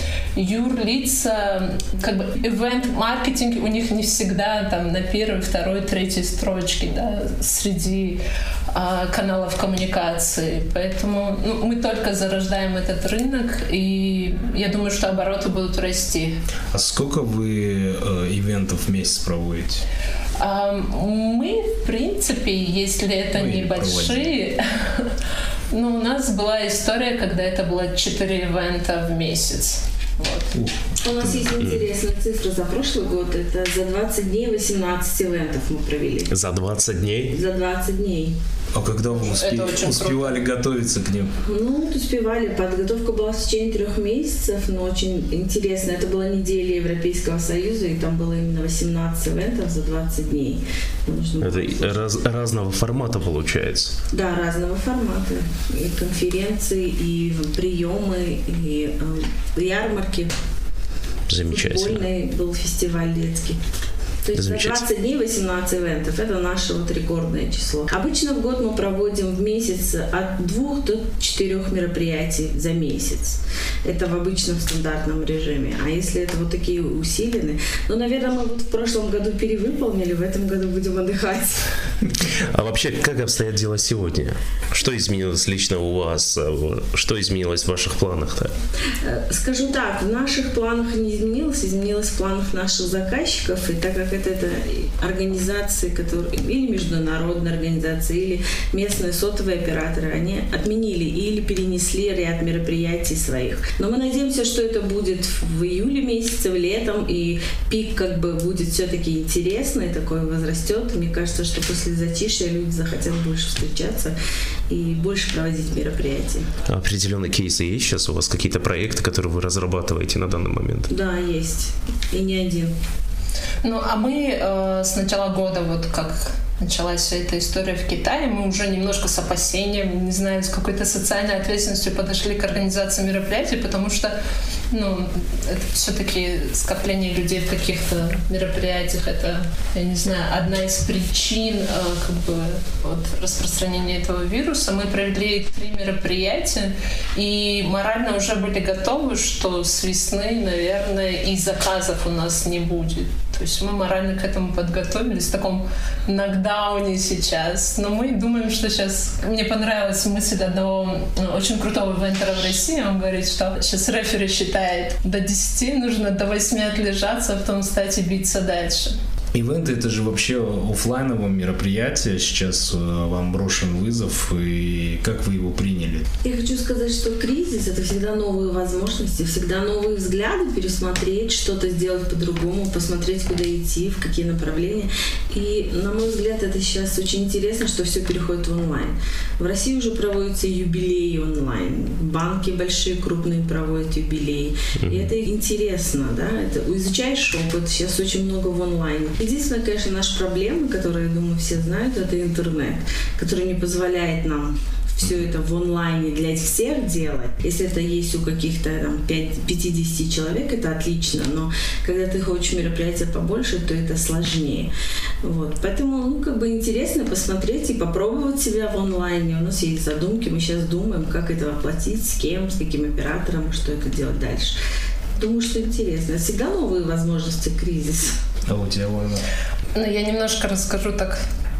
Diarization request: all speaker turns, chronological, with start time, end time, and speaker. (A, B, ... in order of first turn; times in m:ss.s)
0:00.4-0:08.2 A
0:08.7-0:16.4 A
0:16.7-0:19.8 B
0:20.4-0:25.1 A
0:23.3-0:24.3 B
0:25.7-0:30.5 A
0:30.5-0:31.5 B
0:31.0-0:36.3 C
0:31.6-0:31.8 D
0:36.3-0:37.4 D
0:37.3-0:38.3 C
0:38.7-0:41.3 B
0:39.1-0:40.4 A
0:41.4-0:52.1 C
0:51.4-0:54.0 D
0:54.1-1:00.3 C
1:01.3-1:02.0 D
1:01.5-1:03.6 C
1:04.2-1:21.7 C
1:04.3-1:04.8 D
1:22.2-1:28.5 D
1:28.9-1:54.2 C
1:54.7-1:56.5 C
1:56.7-2:00.9 D
2:00.9-2:02.7 C
2:03.6-2:14.2 A
2:14.7-2:48.9 A
2:49.3-2:56.1 B
2:56.2-3:44.6 C
3:14.8-3:15.1 D
3:45.2-3:48.2 C
3:48.5-3:49.2 B
3:49.7-3:51.2 A